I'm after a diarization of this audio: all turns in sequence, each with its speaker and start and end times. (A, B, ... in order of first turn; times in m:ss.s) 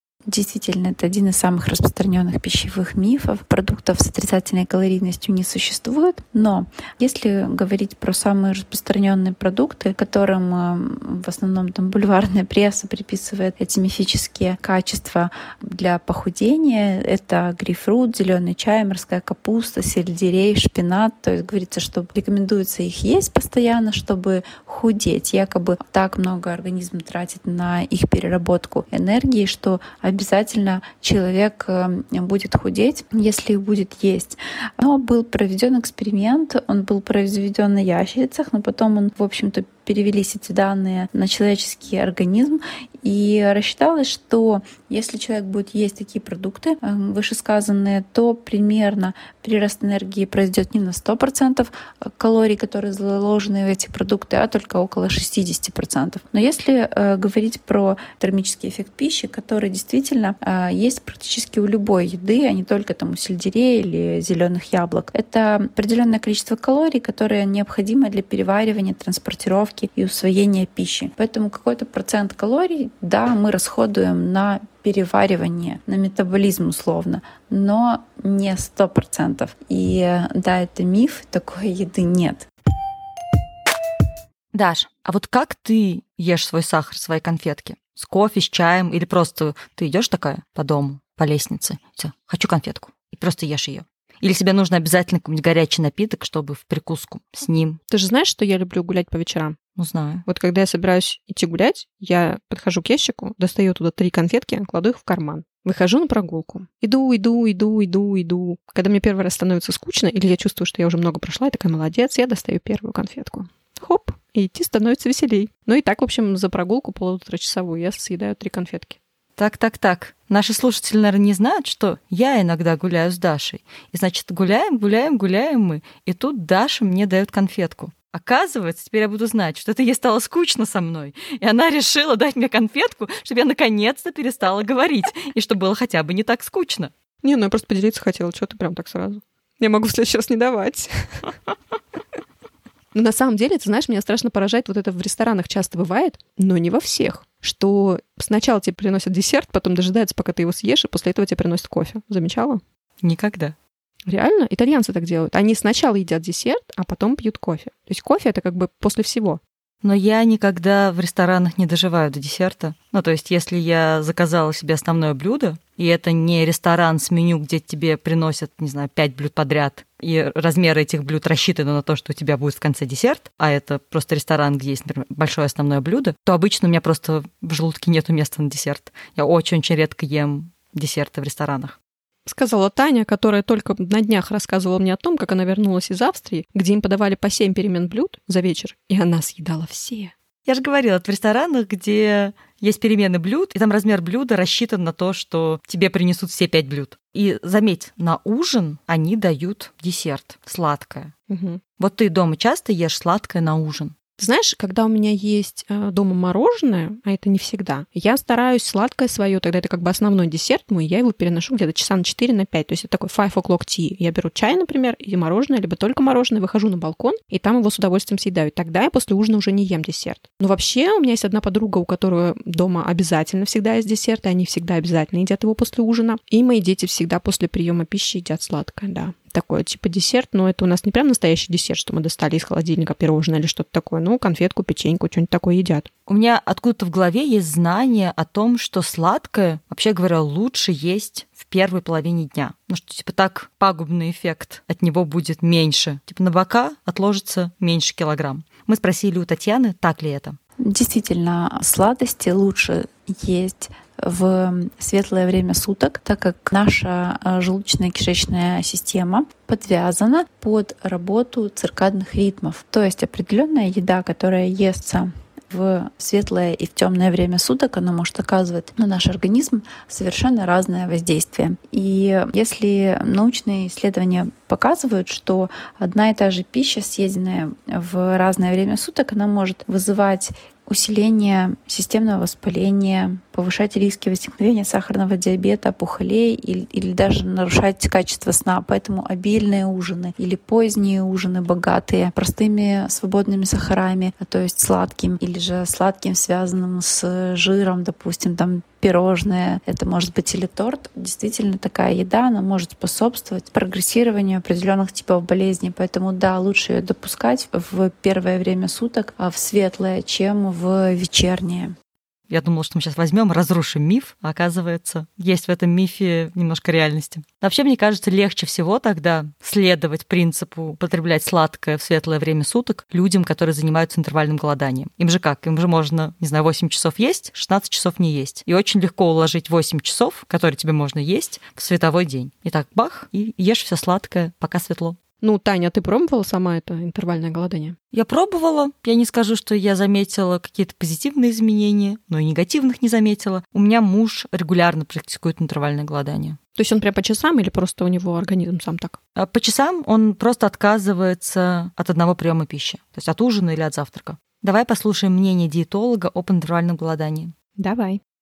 0:00.3-1:22.5 A
1:24.5-1:37.8 B
1:37.9-1:39.6 C
1:39.8-1:40.2 B
1:40.3-1:59.0 C
1:59.4-2:16.9 B
2:17.2-2:21.3 C
2:22.9-2:32.6 C
2:33.0-2:33.5 B
2:34.1-2:39.4 C
2:39.8-3:01.8 B
3:02.2-3:10.1 C
3:10.4-3:21.1 B
3:21.3-3:21.6 C
3:21.8-3:23.9 B
3:24.2-3:55.9 C
3:56.1-4:10.4 B
4:10.6-5:11.7 A
5:12.3-5:35.0 B
5:35.2-5:37.8 C
5:37.9-5:46.4 B
5:46.6-5:49.0 C
5:49.2-5:57.3 B
5:57.6-5:58.0 C